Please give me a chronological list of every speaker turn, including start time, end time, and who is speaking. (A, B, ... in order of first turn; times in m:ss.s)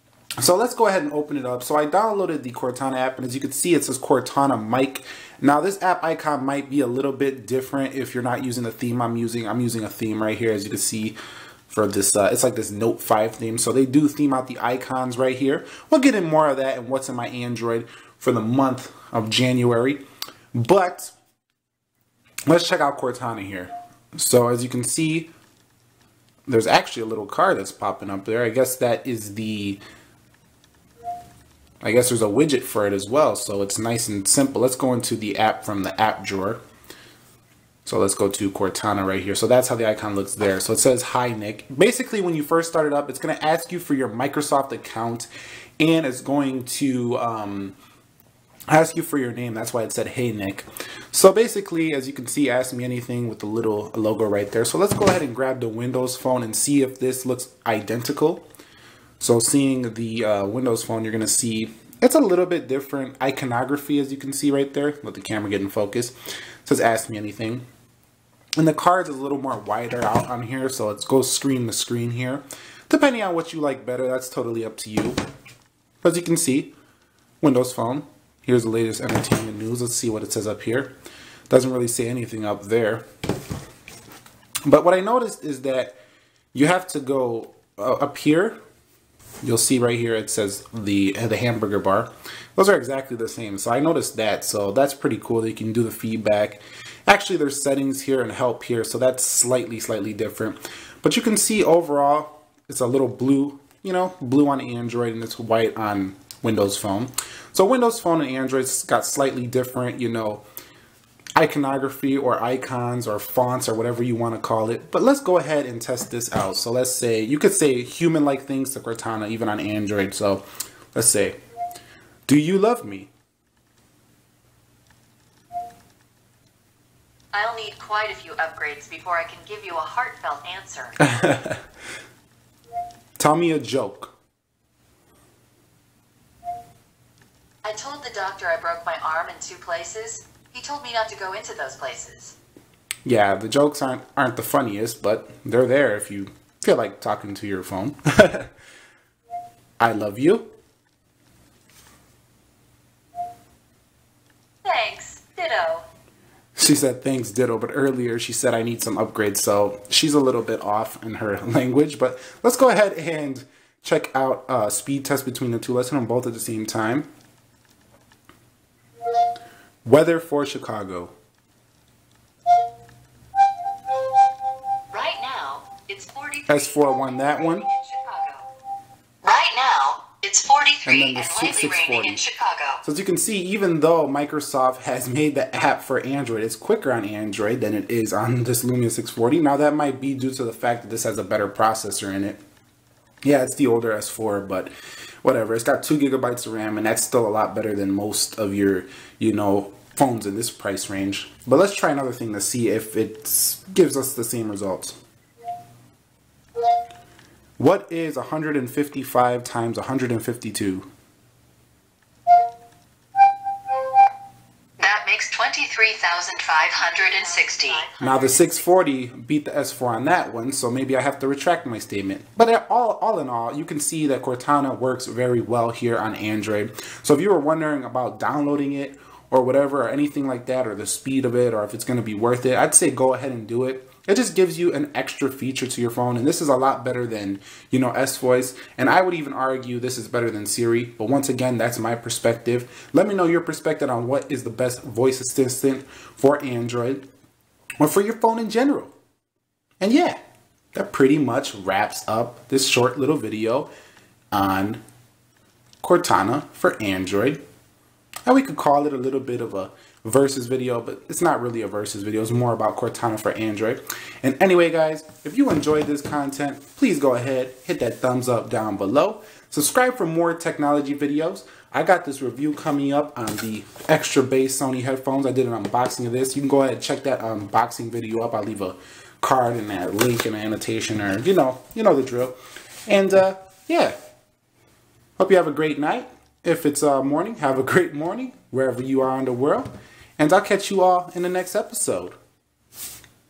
0:00.4-0:11.2 A
0:11.7-0:20.0 A
0:20.5-0:21.1 A
0:22.5-0:25.3 A
0:26.5-0:29.8 A
0:31.8-0:36.6 A
0:37.9-0:47.8 A
0:48.7-0:58.5 A
0:59.2-1:07.6 A
1:08.6-1:15.2 A
1:16.0-1:16.7 A
1:17.4-1:20.9 A
1:21.5-1:23.0 A
1:24.7-1:26.0 A
1:26.5-1:28.6 A
1:29.4-1:50.4 A
1:51.4-2:01.4 A
2:02.3-2:03.1 A
2:07.3-2:11.0 B
2:11.0-2:11.6 A
2:13.2-2:14.1 A
2:17.6-2:22.4 B
2:23.0-2:28.5 A
2:29.8-2:30.5 A
2:34.6-2:35.9 B
2:36.6-2:47.1 A
2:49.9-2:51.1 A
2:54.9-2:58.5 B
2:56.5-2:57.6 A
2:59.2-3:02.8 B
3:00.9-3:02.2 A
3:02.8-3:12.4 A
3:13.2-3:14.7 A
3:15.2-3:25.0 A
3:27.6-3:30.9 A
3:34.8-3:38.6 B
3:38.0-4:07.1 A
4:07.8-4:08.9 A
4:09.8-4:10.2 A
4:10.7-4:13.7 A
4:14.3-4:14.8 A
4:15.8-4:17.4 A
4:18.3-4:43.9 A
4:45.2-4:52.2 A